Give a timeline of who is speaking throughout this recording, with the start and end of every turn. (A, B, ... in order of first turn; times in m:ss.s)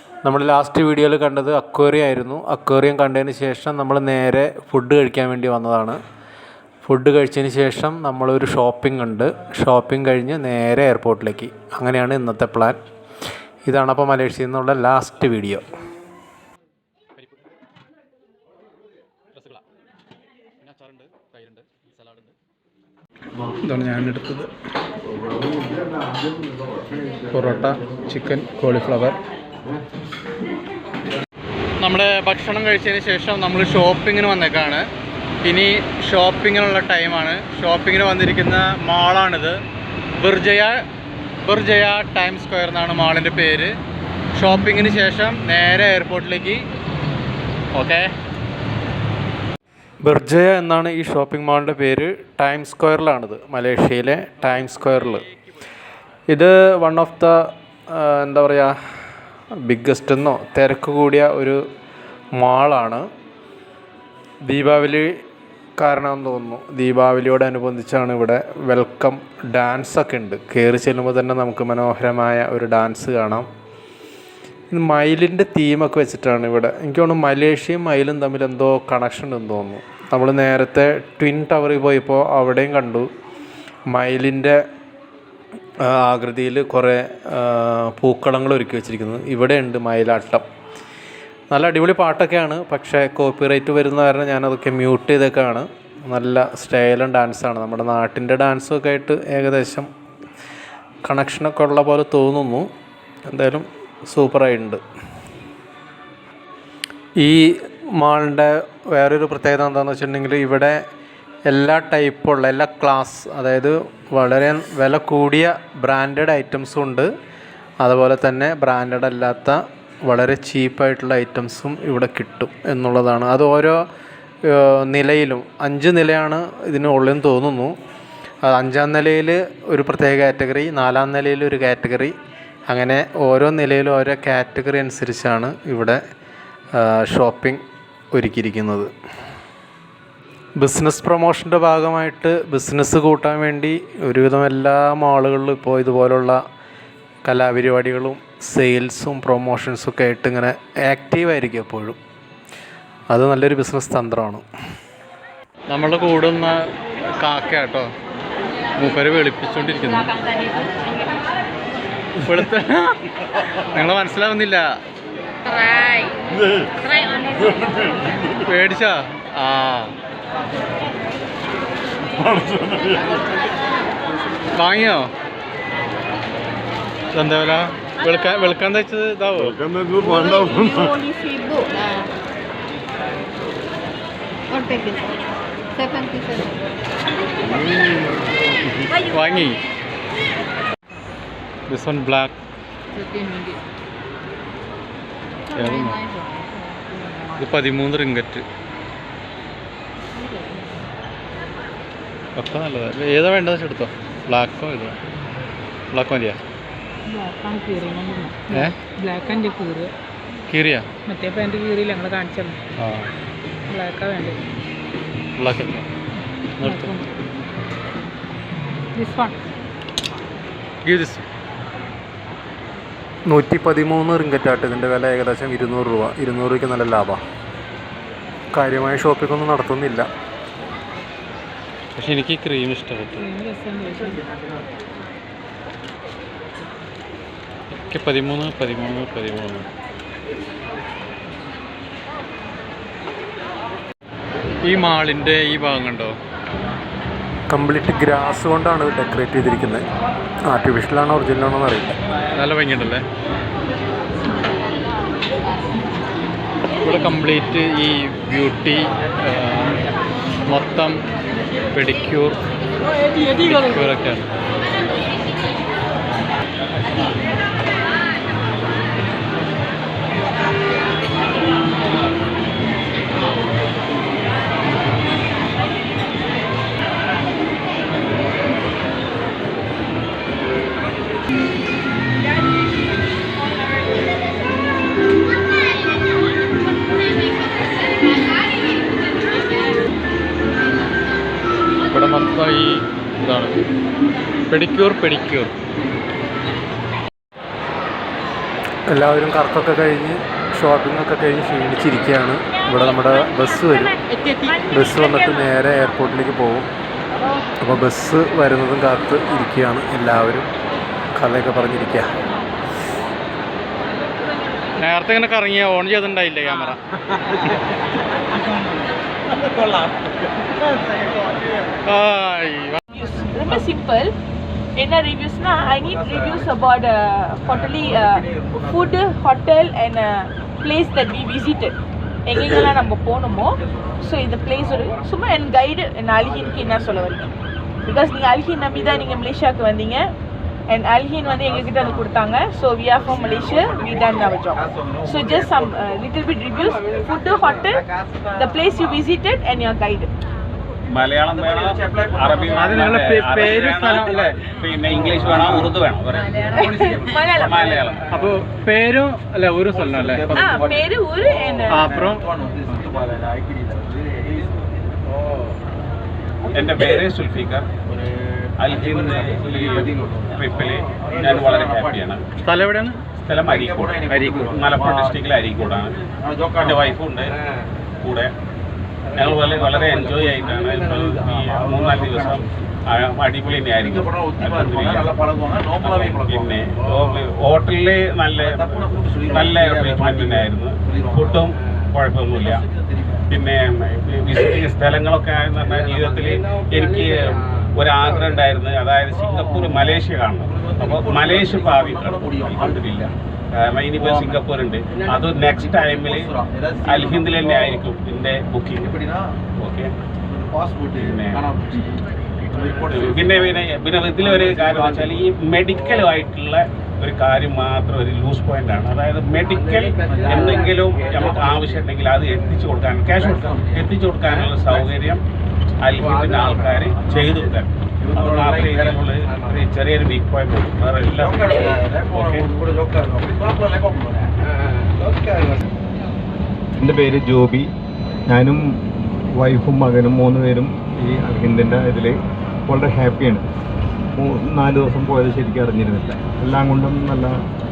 0:00.2-0:06.0 A
0:06.8-0:12.8 A
0:13.6-0:15.6 A
0:19.4-0:19.6 B
0:20.6-0:22.3 B
0:23.6-0:24.5 B
0:27.3-0:29.2 B
0:31.8-0:34.9 B
0:35.4-0:39.6 B
0:40.2-0:40.8 B
0:41.4-0:43.7 B
0:44.4-0:46.7 B
0:47.7-0:48.1 B
0:50.0-0:55.2 A
0:56.3-0:58.8 A
0:59.6-1:01.6 A
1:02.4-1:03.1 A
1:04.4-1:05.2 A
1:05.8-1:13.5 A
1:14.7-1:23.1 A
1:23.9-1:24.6 A
1:25.8-1:30.4 A
1:31.5-1:39.9 A
1:41.0-1:42.7 A
1:43.3-1:44.8 A
1:47.2-1:50.8 A
1:51.5-1:57.1 A
1:57.8-2:03.8 A
2:04.5-2:07.8 A
2:08.4-2:12.2 A
2:12.7-2:16.0 A
2:16.8-2:17.6 A
2:18.1-2:18.9 A
2:20.6-2:26.4 A
2:27.2-2:32.0 A
2:33.1-2:34.4 A
2:35.7-2:36.6 B
2:37.2-2:37.9 B
2:38.8-2:40.1 B
2:42.3-2:43.0 B
2:43.6-2:44.6 B
2:48.5-2:49.9 B
2:54.5-2:55.1 B
2:57.1-2:59.6 B
2:59.9-3:02.1 C
3:04.5-3:05.1 C
3:05.8-3:06.5 C
3:08.8-3:09.6 B
3:11.7-3:12.3 B
3:13.0-3:13.6 C
3:15.5-3:16.0 B
3:15.6-3:16.6 C
3:17.4-3:18.4 B
3:20.3-3:20.8 D
3:22.4-3:25.0 B
3:25.9-3:26.4 B
3:27.1-3:29.9 D
3:28.5-3:28.8 B
3:30.5-3:30.9 B
3:31.1-3:32.6 D
3:32.8-3:33.1 B
3:33.7-3:34.4 D
3:35.4-3:35.9 B
3:36.6-3:37.0 B
3:36.6-3:37.1 D
3:39.0-3:39.4 D
3:40.8-3:41.2 B
3:43.3-3:47.2 A
3:48.5-3:50.1 A
3:52.0-3:53.3 B
3:53.2-3:54.2 D
3:57.8-3:59.7 B
4:04.6-4:06.2 B
4:07.5-4:09.9 A
4:10.5-4:12.0 A
4:12.4-4:13.0 B
4:16.8-4:19.8 B
4:20.5-4:21.0 B
4:21.7-4:22.4 B
4:23.5-4:24.3 B
4:51.9-4:53.6 B
4:54.5-4:55.5 B
4:58.9-5:03.9 A
5:04.7-5:06.7 A
5:07.6-5:10.5 A
5:11.2-5:12.1 A
5:14.8-5:16.8 B
5:21.9-5:22.8 B
5:22.9-5:24.1 E
5:24.8-5:31.8 E
5:32.3-5:37.3 E
5:37.8-5:40.1 E
5:40.7-5:50.1 E
5:50.9-5:58.0 F
5:52.5-5:54.4 B
5:56.6-5:57.8 E
5:58.1-6:00.6 B
6:00.4-6:01.9 E
6:01.7-6:02.7 B
6:06.5-6:07.7 F
6:08.6-6:12.2 F
6:12.4-6:13.0 B
6:13.2-6:16.0 F
6:14.1-6:14.5 B
6:16.6-6:17.3 F
6:18.0-6:18.3 F
6:19.1-6:25.2 F
6:25.8-6:32.6 F
6:33.3-6:49.0 F
6:49.6-6:49.9 F
6:50.9-6:51.4 F
6:52.9-7:05.2 F
7:05.8-7:12.5 F
7:16.8-7:17.7 G
7:18.3-7:18.7 G
7:19.3-7:22.2 G
7:22.7-7:23.5 G
7:24.2-7:27.4 G